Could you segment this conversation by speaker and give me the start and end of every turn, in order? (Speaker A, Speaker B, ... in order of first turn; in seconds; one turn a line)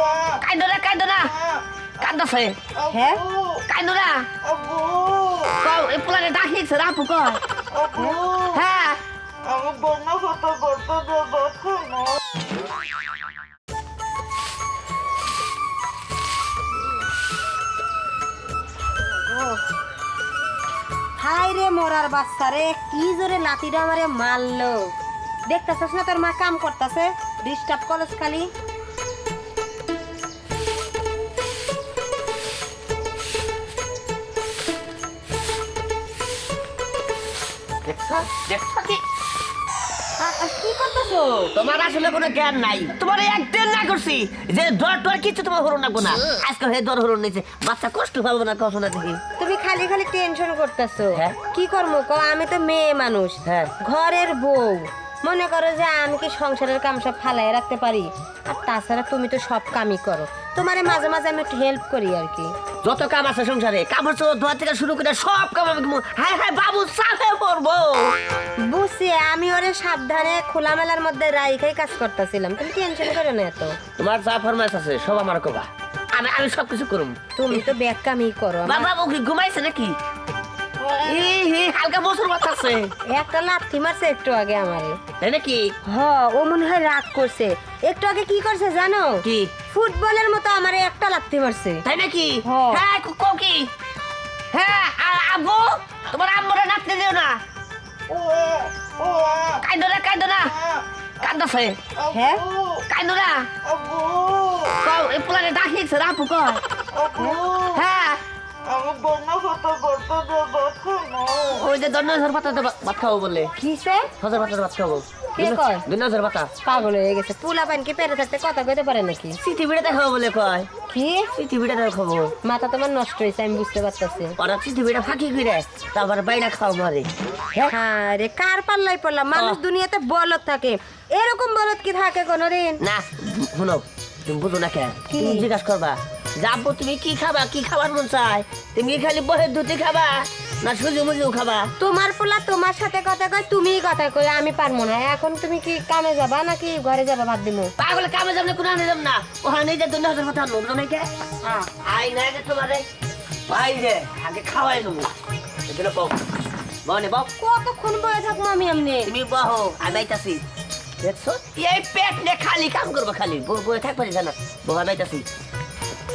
Speaker A: 0.2-1.4
Speaker A: 2.0-2.6
Speaker B: 2.9-3.2
Speaker A: 3.7-4.3
Speaker C: 4.6-5.2
Speaker A: 5.5-7.4
Speaker B: 8.0-8.2
Speaker A: 8.4-9.0
Speaker C: 9.6-11.9
Speaker B: 21.2-24.9
Speaker B: 25.5-28.5
Speaker A: 37.8-39.0
Speaker B: 40.2-41.6
Speaker A: 41.5-49.2
Speaker B: 49.4-62.5
Speaker A: 53.5-53.7
Speaker A: 62.8-68.2
Speaker B: 68.7-73.8
Speaker A: 74.0-77.7
Speaker B: 77.4-78.9
Speaker A: 78.6-80.0
Speaker A: 80.8-82.9
Speaker B: 83.1-85.0
Speaker A: 85.2-85.8
Speaker B: 85.9-91.8
Speaker A: 89.2-89.5
Speaker A: 91.8-93.7
Speaker B: 92.5-92.8
Speaker A: 94.5-97.4
Speaker A: 99.5-100.6
Speaker A: 101.2-101.8
Speaker B: 102.1-102.5
Speaker A: 102.9-103.5
Speaker C: 103.8-104.3
Speaker A: 104.6-106.6
Speaker B: 107.2-107.5
Speaker A: 107.6-108.2
Speaker C: 108.7-111.2
Speaker A: 111.3-113.5
Speaker B: 113.6-114.1
Speaker A: 114.2-116.5
Speaker B: 115.4-115.8
Speaker B: 116.6-119.4
Speaker A: 119.4-120.7
Speaker B: 120.9-121.3
Speaker A: 121.4-122.3
Speaker B: 122.4-124.4
Speaker A: 124.4-127.8
Speaker B: 127.7-132.8
Speaker A: 129.3-129.6
Speaker A: 132.8-141.7
Speaker B: 135.1-135.5
Speaker B: 141.8-147.7
Speaker A: 147.8-151.1
Speaker A: 151.8-152.8
Speaker A: 153.5-155.1
Speaker A: 155.7-156.2
Speaker A: 156.8-157.3
Speaker B: 157.4-159.1
Speaker A: 159.0-160.4
Speaker A: 161.0-165.2